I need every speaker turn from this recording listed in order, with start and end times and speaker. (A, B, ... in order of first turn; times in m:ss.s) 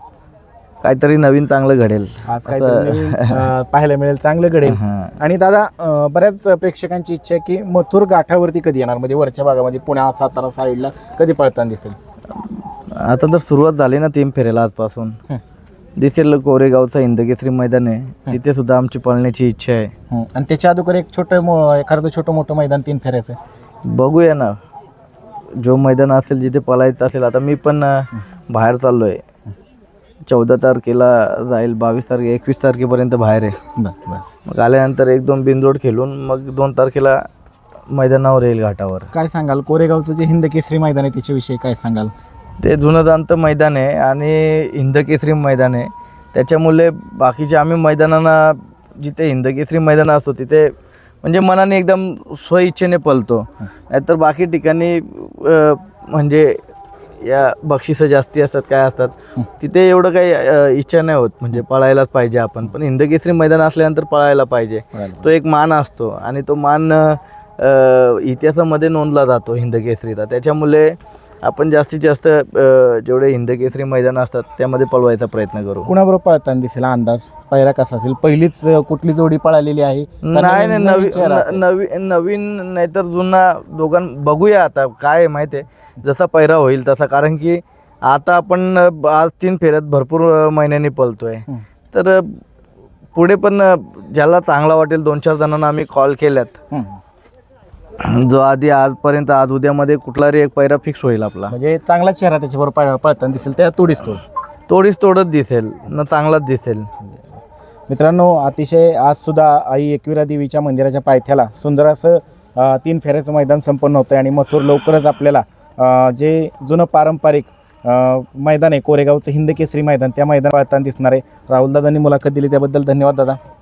0:00.8-0:03.5 A
0:02.3-0:12.0 B
0:04.7-0:05.2 A
0:12.9-0:15.2 A
0:16.0-0:19.9 A
0:20.1-0:23.4 B
0:23.8-0:24.6 A
0:25.6-0:29.2 A
0:30.3-0:33.6 A
0:33.8-0:34.2 B
0:34.4-0:37.3 A
0:37.9-0:39.1 A
0:39.1-0:42.1 B
0:42.6-0:56.6 A
0:57.2-1:15.9 A
1:05.0-1:05.3 B
1:15.9-1:21.6 B
1:20.2-1:32.4 A
1:33.2-1:36.6 A
1:36.7-1:37.0 B
1:38.0-1:41.6 A
1:41.5-1:44.2 B
1:44.7-1:46.9 A
1:47.9-2:03.4 B